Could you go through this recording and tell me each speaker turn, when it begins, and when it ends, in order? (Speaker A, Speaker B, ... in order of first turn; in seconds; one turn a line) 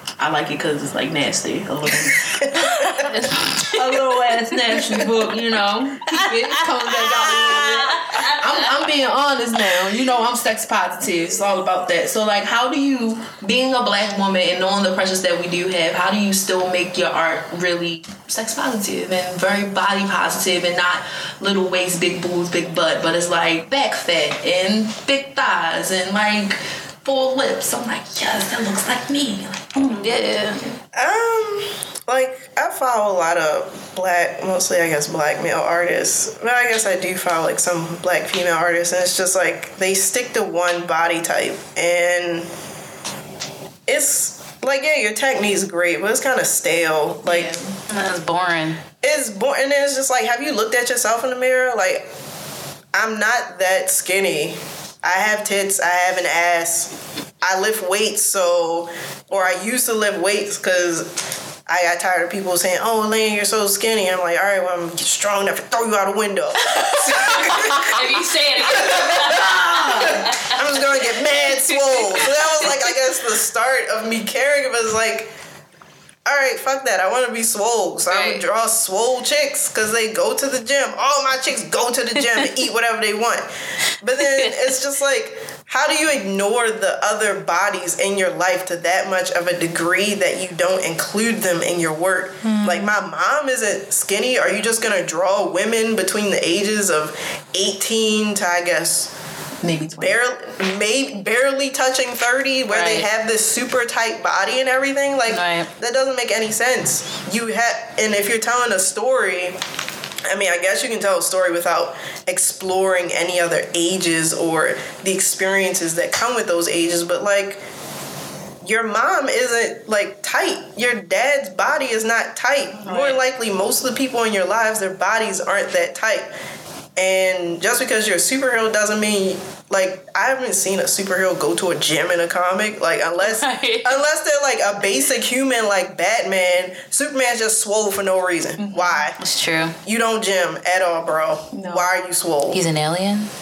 Speaker A: 0.2-3.1
Speaker B: 2.2-3.1
Speaker C: 2.9-3.8
Speaker A: 3.6-30.8
Speaker C: 6.0-8.8
Speaker C: 29.8-30.6
Speaker B: 30.9-42.5
Speaker B: 43.9-47.6
Speaker C: 47.3-48.8
Speaker B: 49.0-52.0
Speaker B: 52.9-61.1
Speaker B: 61.6-75.3
Speaker C: 66.8-71.1
Speaker A: 67.5-67.8
Speaker A: 68.7-70.3
Speaker C: 71.6-72.9
Speaker B: 76.2-83.5
Speaker C: 78.1-78.4
Speaker B: 84.0-99.1
Speaker C: 84.2-84.6
Speaker A: 99.6-100.2
Speaker B: 100.0-109.6
Speaker C: 102.7-103.1
Speaker C: 105.3-105.7
Speaker B: 110.3-117.6
Speaker B: 118.6-126.3
Speaker A: 122.8-123.2
Speaker B: 127.0-139.2
Speaker C: 133.2-134.0
Speaker A: 138.6-139.1
Speaker C: 139.2-139.8
Speaker B: 139.8-142.6
Speaker A: 141.5-141.9
Speaker C: 142.5-143.3